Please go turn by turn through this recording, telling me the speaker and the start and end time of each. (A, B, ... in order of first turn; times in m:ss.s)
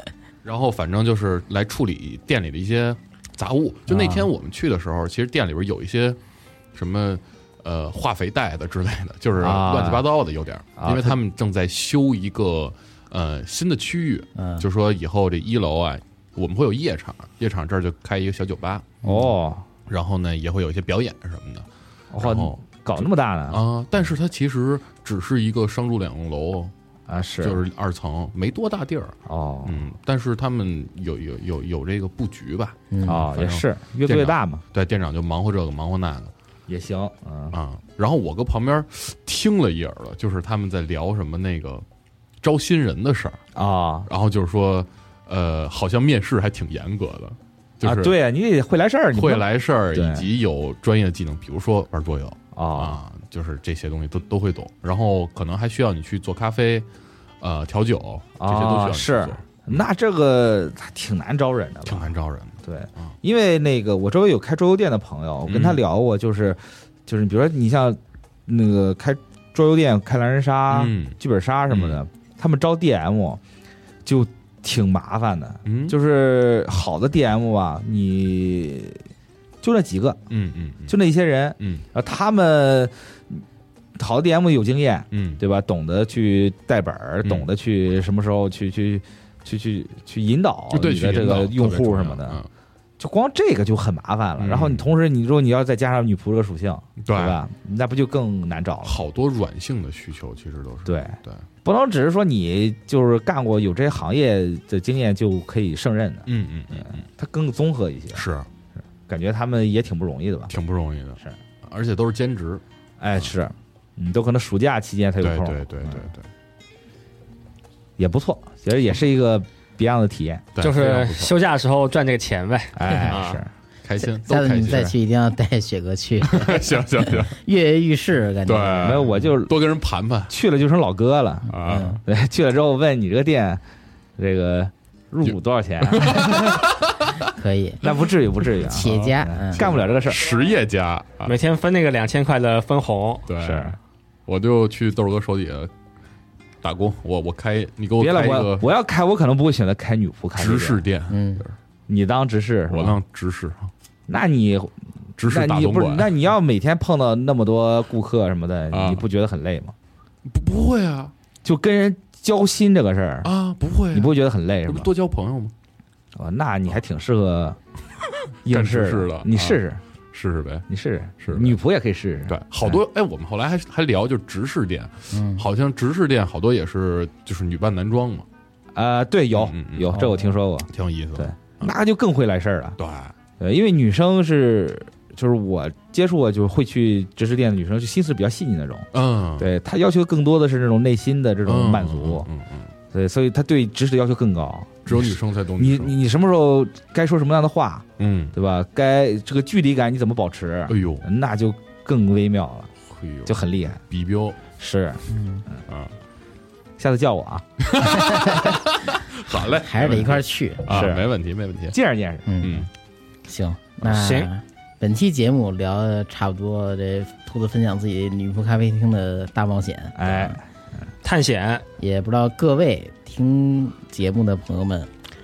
0:00.4-0:06.2 A
0:03.9-0:04.3 B
0:06.8-0:18.9 A
0:09.4-0:10.1 B
0:10.8-0:11.2 B
0:14.4-0:14.6 C
0:19.0-0:19.7 B
0:19.9-0:21.7 A
0:22.1-0:23.6 B
0:22.2-0:22.8 A
0:23.5-0:26.7 A
0:27.1-0:27.6 B
0:27.4-0:36.3 A
0:29.3-0:29.8 B
0:32.9-0:33.2 C
0:33.0-0:34.6 B
0:36.7-0:37.6 B
0:37.5-0:41.8 A
0:42.4-0:43.4 A
0:43.6-0:44.1 B
0:44.1-0:48.2 A
0:47.8-0:50.3 B
0:49.1-0:56.8 A
0:52.6-0:53.0 B
0:57.4-0:59.8 A
0:58.4-1:13.4 B
1:01.9-1:03.1 A
1:05.5-1:05.8 A
1:10.7-1:11.2 A
1:11.7-1:12.0 A
1:14.0-1:19.0 B
1:15.6-1:16.0 A
1:19.6-1:20.2 B
1:20.3-1:21.0 A
1:20.9-1:23.4 B
1:24.0-1:32.4 B
1:25.1-1:25.4 A
1:30.7-1:32.5 A
1:33.0-1:39.0 B
1:34.4-1:34.8 A
1:37.0-1:37.4 A
1:38.8-1:41.5 A
1:40.9-1:48.2 B
1:46.3-1:47.0 A
1:48.1-1:48.5 A
1:49.1-1:50.5 B
1:50.5-1:52.6 A
1:53.0-1:56.1 B
1:55.2-1:56.3 A
1:58.0-2:00.5 B
2:00.6-2:01.4 A
2:00.6-2:03.4 D
2:02.7-2:03.5 B
2:02.9-2:03.1 C
2:03.8-2:04.9 A
2:04.0-2:09.0 C
2:04.7-2:04.9 B
2:06.2-2:07.4 A
2:08.4-2:10.4 A
2:08.8-2:09.5 B
2:10.3-2:13.6 B
2:11.5-2:12.0 A
2:11.6-2:12.0 C
2:14.2-2:16.6 B
2:15.2-2:17.3 A
2:17.4-2:17.8 C
2:17.8-2:20.3 B
2:18.6-2:21.3 A
2:18.6-2:19.6 C
2:21.3-2:23.3 D
2:23.3-2:25.7 A
2:23.4-2:23.8 B
2:26.6-2:28.7 A
2:28.0-2:30.8 B
2:30.4-2:31.6 A
2:31.1-2:31.4 C
2:31.9-2:33.0 B
2:32.7-2:33.7 A
2:34.1-2:39.7 B
2:35.2-2:36.1 A
2:38.7-2:39.0 A
2:40.3-2:41.1 A
2:41.4-2:43.3 B
2:43.2-2:45.5 A
2:43.9-2:44.9 B
2:46.2-2:47.6 B
2:48.4-2:49.8 B
2:48.5-2:49.6 A
2:50.1-2:50.7 A
2:50.7-2:52.8 B
2:51.2-2:51.6 A
2:52.3-2:58.3 A
2:55.1-2:55.4 C
2:58.8-3:02.8 B
2:59.3-3:00.0 A
2:59.9-3:00.3 C
3:00.7-3:01.8 A
3:02.8-3:03.1 A
3:03.4-3:12.3 B
3:08.9-3:09.5 A
3:11.5-3:12.7 A
3:12.9-3:22.7 B
3:14.9-3:16.0 A
3:18.0-3:18.4 A
3:20.7-3:21.1 A
3:22.9-3:23.4 A
3:23.2-3:23.8 B
3:23.9-3:24.4 A
3:24.6-3:25.0 B
3:25.1-3:25.4 C
3:25.7-3:25.9 A
3:26.8-3:27.4 B
3:27.6-3:31.8 A
3:27.8-3:29.0 C
3:29.5-3:30.9 C
3:30.7-3:31.1 B
3:31.7-3:32.3 B
3:32.3-3:32.7 C
3:32.4-3:32.7 A
3:33.3-3:40.0 C
3:33.8-3:34.3 D
3:40.0-3:40.5 B
3:40.1-3:40.4 A
3:41.0-3:41.6 D
3:41.8-3:44.9 C